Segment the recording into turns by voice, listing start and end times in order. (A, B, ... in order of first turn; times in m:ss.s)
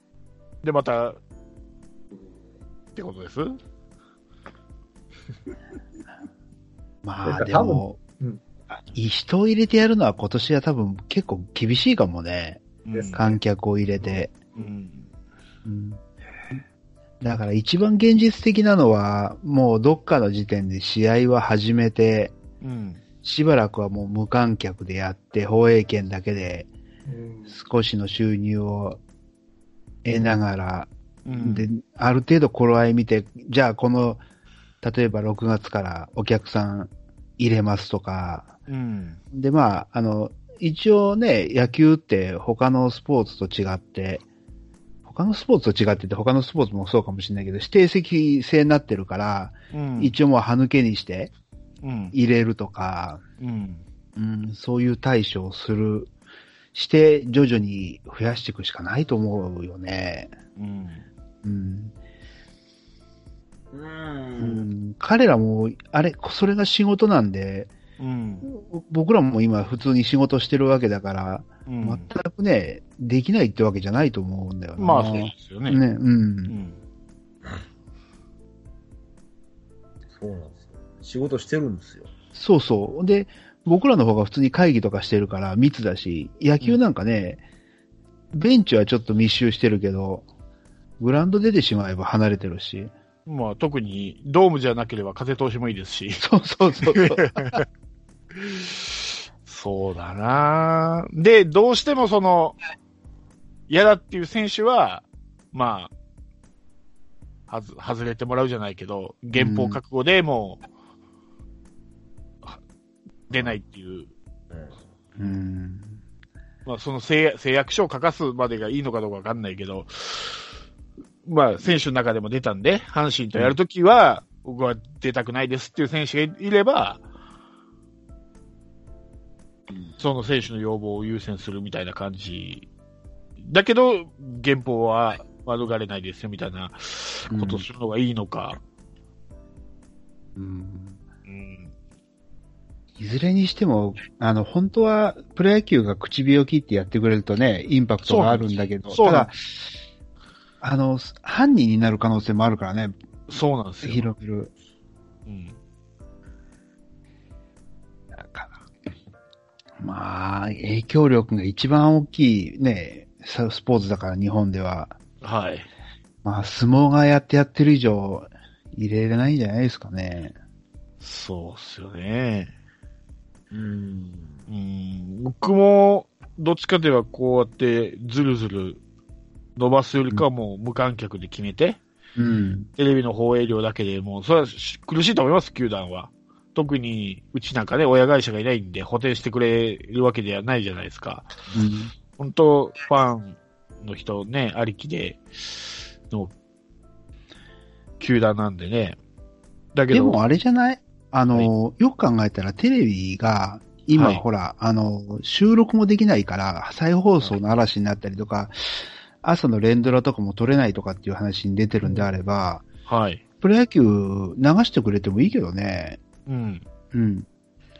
0:00.6-0:01.2 A
0:03.0-0:03.6 A
0:07.0-0:08.0 B
0:07.2-0:08.4 C
0:08.9-0:14.3 B
0:12.9-0:13.3 A
0:12.9-0:13.3 C
0:14.6-0:15.1 A
0:15.6-0:16.0 B
0:17.2-0:22.4 B
0:22.6-0:23.0 A
0:23.2-0:26.7 B
0:27.1-0:27.6 C
0:27.5-0:29.0 B
0:30.0-0:34.2 B
0:31.2-0:31.7 A
0:34.8-0:38.5 B
0:38.7-0:39.2 A
0:39.3-0:44.2 B
0:45.0-0:51.3 B
0:49.7-0:50.2 A
0:51.8-0:52.2 A
0:52.1-0:53.2 B
0:53.4-0:53.8 A
0:54.2-0:56.1 B
0:56.7-1:00.3 B
1:00.6-1:01.1 A
1:01.4-1:01.9 B
1:03.7-1:04.6 D
1:04.4-1:07.7 B
1:08.0-1:08.5 A
1:08.4-1:16.6 B
1:11.7-1:12.1 A
1:14.8-1:15.8 A
1:16.5-1:16.8 A
1:20.1-1:22.1 D
1:22.3-1:27.4 B
1:28.3-1:30.3 B
1:31.0-1:32.9 B
1:33.3-1:36.2 A
1:36.2-1:37.6 B
1:36.8-1:37.6 A
1:38.3-1:42.6 A
1:43.7-1:45.9 A
1:47.5-1:50.6 A
1:49.3-1:49.8 B
1:53.3-1:54.1 A
1:54.5-1:54.8 D
1:55.2-1:56.0 B
1:56.7-2:00.4 A
2:01.3-2:07.0 A
2:10.0-2:12.7 A
2:13.4-2:18.6 A
2:17.3-2:17.7 B
2:20.4-2:21.0 B
2:21.3-2:21.7 A
2:23.0-2:29.6 B
2:28.0-2:29.3 A
2:30.6-2:33.0 B
2:33.3-2:34.1 A
2:33.8-2:34.5 B
2:35.3-2:35.6 A
2:38.1-2:38.6 B
2:39.8-2:45.0 B
2:45.2-2:45.7 A
2:46.2-2:50.4 B
2:51.0-2:52.5 A
2:53.5-2:54.5 D
2:54.5-2:58.8 A
2:59.6-3:01.8 A
3:02.2-3:02.7 B
3:02.8-3:11.3 A
3:11.5-3:11.9 B
3:12.2-3:16.3 A
3:18.0-3:19.0 A
3:19.8-3:20.2 A
3:19.9-3:28.6 B
3:23.9-3:24.2 A
3:29.2-3:32.6 B
3:32.9-3:33.2 A
3:33.4-3:36.0 B
3:36.3-3:36.6 A
3:36.9-3:37.3 B